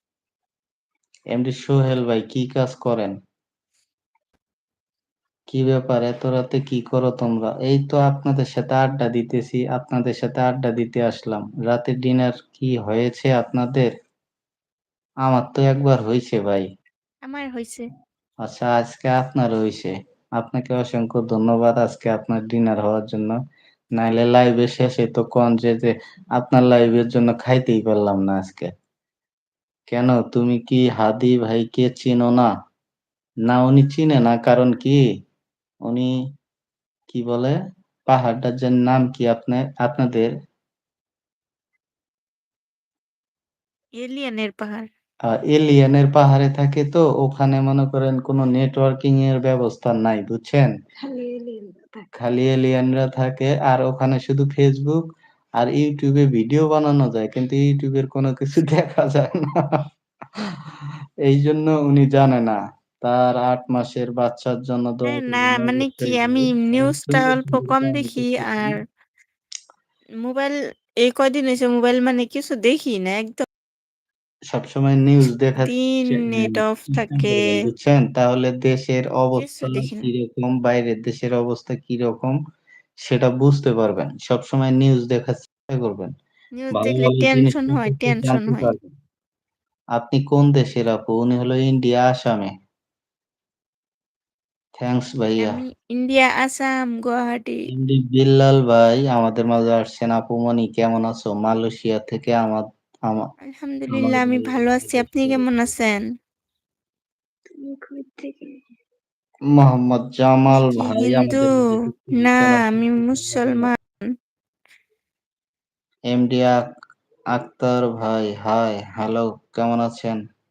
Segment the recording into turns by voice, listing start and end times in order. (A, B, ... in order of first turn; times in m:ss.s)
0:01.3-0:03.2 A
0:05.5-0:13.9 A
0:15.2-0:16.7 A
0:17.3-0:17.9 B
0:18.4-0:23.4 A
0:24.0-0:28.7 A
0:29.9-0:32.5 A
0:33.5-0:35.0 A
0:35.8-0:36.1 A
0:37.1-0:37.6 A
0:38.1-0:40.3 A
0:44.0-0:44.9 B
0:45.3-0:50.7 A
0:51.0-0:52.1 C
0:52.2-0:55.0 A
0:55.6-0:59.8 A
1:01.2-1:08.8 A
1:05.1-1:08.8 B
1:10.2-1:13.4 B
1:14.5-1:22.4 A
1:15.6-1:17.6 B
1:19.4-1:20.1 B
1:23.0-1:26.1 A
1:26.6-1:28.8 B
1:26.7-1:28.9 A
1:30.0-1:32.5 A
1:34.8-1:35.6 A
1:35.4-1:37.6 B
1:37.7-1:43.3 A
1:43.5-1:46.0 B
1:43.9-1:45.5 A
1:47.6-1:48.6 C
1:49.6-1:53.8 A
1:50.5-1:51.6 B
1:52.1-1:53.9 B
1:56.1-1:56.6 A
1:57.3-2:00.2 A